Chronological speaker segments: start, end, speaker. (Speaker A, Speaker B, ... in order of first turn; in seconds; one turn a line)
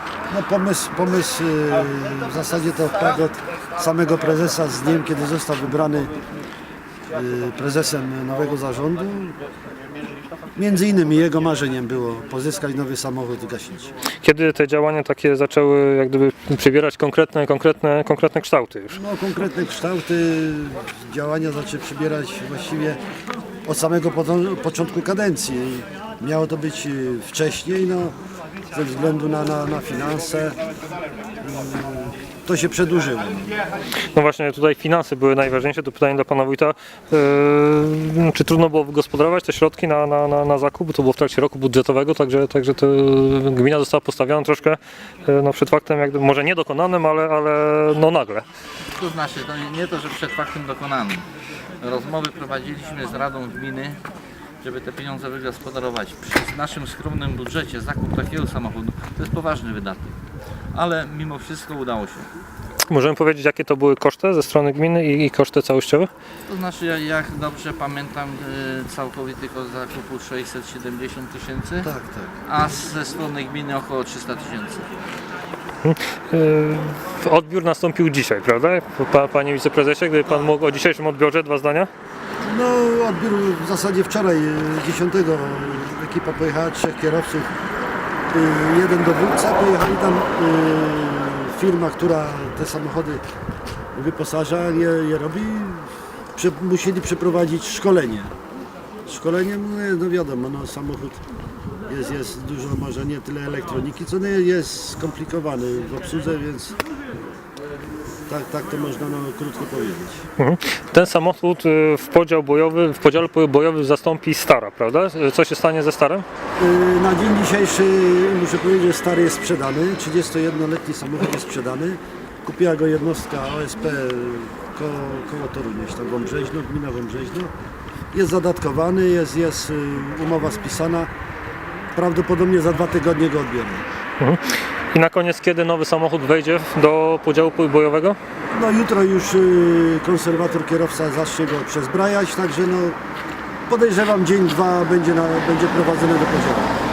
Speaker A: 0.3-6.2
Speaker A: 7.1-9.4
Speaker A: 10.6-13.9
Speaker B: 14.2-19.0
Speaker A: 18.9-23.0
Speaker A: 23.7-28.1
Speaker A: 28.7-30.6
Speaker A: 31.4-33.6
Speaker B: 34.1-48.5
Speaker C: 49.0-51.3
Speaker C: 51.8-54.0
Speaker C: 54.6-60.2
Speaker C: 60.7-62.3
Speaker B: 62.9-66.1
Speaker C: 66.5-71.9
Speaker A: 71.8-72.4
Speaker C: 72.5-74.9
Speaker B: 75.8-81.9
Speaker A: 82.4-87.5
Speaker A: 88.3-93.2
Speaker A: 94.0-98.3
Speaker A: 99.1-101.2
Speaker A: 101.9-106.8
Speaker A: 108.3-110.2
Speaker B: 110.4-116.2
Speaker A: 116.6-127.5
Speaker A: 128.1-131.1
Speaker A: 131.9-133.8
Speaker B: 134.2-138.2
Speaker A: 138.5-143.0
Speaker A: 143.7-146.7